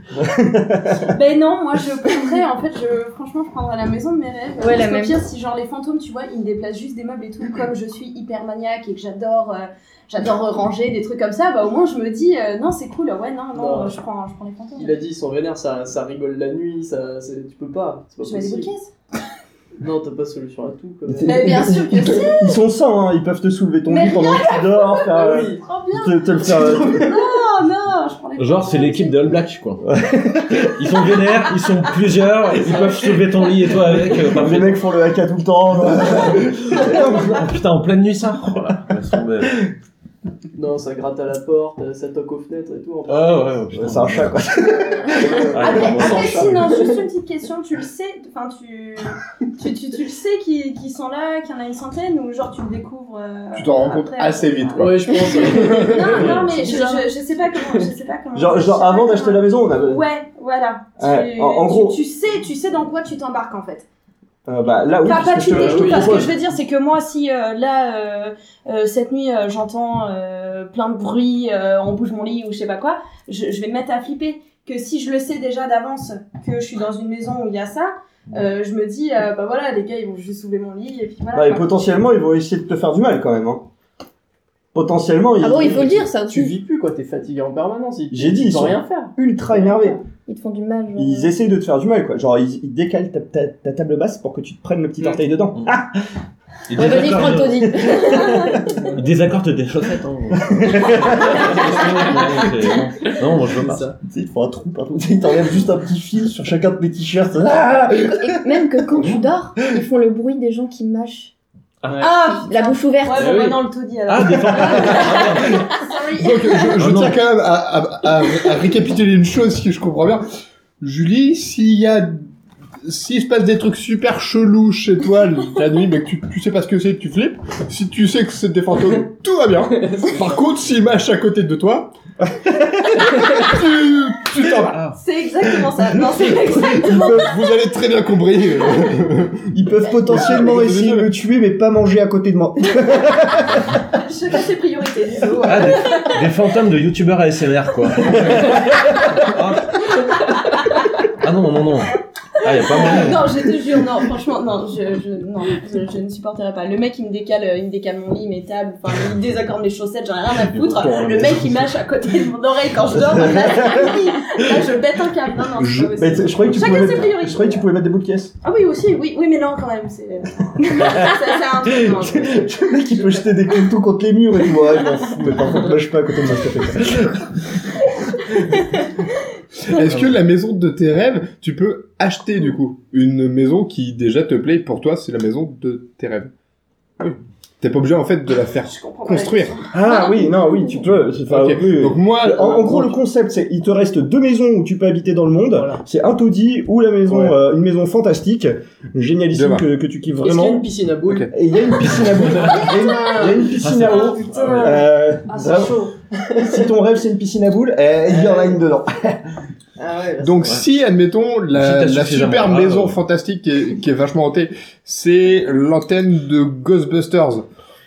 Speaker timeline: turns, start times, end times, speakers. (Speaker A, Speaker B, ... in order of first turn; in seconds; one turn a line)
Speaker A: 0.1-1.1
Speaker B: 1.0-14.9
Speaker C: 4.6-5.2
Speaker D: 13.5-13.9
Speaker D: 14.8-18.7
Speaker B: 18.2-18.9
Speaker D: 19.8-21.6
Speaker A: 21.1-27.3
Speaker B: 21.2-22.6
Speaker B: 23.9-29.3
Speaker D: 25.1-25.6
Speaker E: 28.4-29.8
Speaker A: 29.8-31.0
Speaker E: 30.5-34.8
Speaker A: 34.0-37.5
Speaker E: 36.7-39.7
Speaker D: 40.5-43.5
Speaker E: 43.1-44.4
Speaker A: 43.7-45.5
Speaker D: 45.0-47.0
Speaker E: 45.4-46.6
Speaker B: 45.6-63.9
Speaker F: 53.5-56.4
Speaker D: 54.8-57.1
Speaker A: 58.3-60.0
Speaker A: 61.0-62.0
Speaker A: 64.5-66.3
Speaker B: 65.0-81.8
Speaker D: 65.5-66.3
Speaker A: 81.3-83.7
Speaker A: 84.7-86.2
Speaker C: 85.4-86.6
Speaker D: 86.2-89.1
Speaker A: 88.1-90.0
Speaker C: 90.2-91.3
Speaker A: 90.9-96.0
Speaker E: 96.7-97.9
Speaker C: 96.8-98.6
Speaker A: 96.8-98.6
Speaker E: 98.9-103.9
Speaker A: 100.4-101.5
Speaker D: 101.1-102.4
Speaker D: 103.4-104.0
Speaker A: 104.0-109.2
Speaker C: 108.1-111.3
Speaker E: 111.8-112.1
Speaker B: 112.0-116.9
Speaker C: 112.1-113.5
Speaker D: 113.2-113.6
Speaker E: 113.2-113.5
Speaker E: 114.1-115.7
Speaker F: 116.2-120.2
Speaker E: 116.8-117.2
Speaker F: 120.8-122.3
Speaker F: 122.8-131.9
Speaker D: 129.7-130.4
Speaker A: 132.2-133.4
Speaker F: 133.1-134.9
Speaker E: 134.4-135.0
Speaker B: 134.9-137.3
Speaker A: 135.8-137.2
Speaker F: 136.7-139.5
Speaker A: 139.5-143.8
Speaker F: 140.1-141.1
Speaker B: 143.9-146.4
Speaker E: 145.4-150.0
Speaker B: 148.1-148.3
Speaker B: 149.9-150.4
Speaker E: 151.0-153.6
Speaker B: 152.4-167.6
Speaker E: 160.3-161.7
Speaker A: 163.1-163.9
Speaker F: 165.5-166.6
Speaker A: 166.0-168.3
Speaker B: 168.4-172.7
Speaker A: 170.6-177.8
Speaker F: 179.6-186.3
Speaker F: 187.6-189.7
Speaker B: 188.7-189.7
Speaker A: 189.7-200.7
Speaker C: 190.0-190.7
Speaker F: 191.3-192.9
Speaker D: 195.5-195.8
Speaker F: 197.1-197.4
Speaker F: 199.3-199.7
Speaker D: 200.1-201.3
Speaker A: 201.3-209.2
Speaker B: 202.4-205.9
Speaker E: 203.5-204.8
Speaker D: 208.1-208.6
Speaker D: 209.8-210.6
Speaker F: 210.2-217.4
Speaker E: 211.5-213.0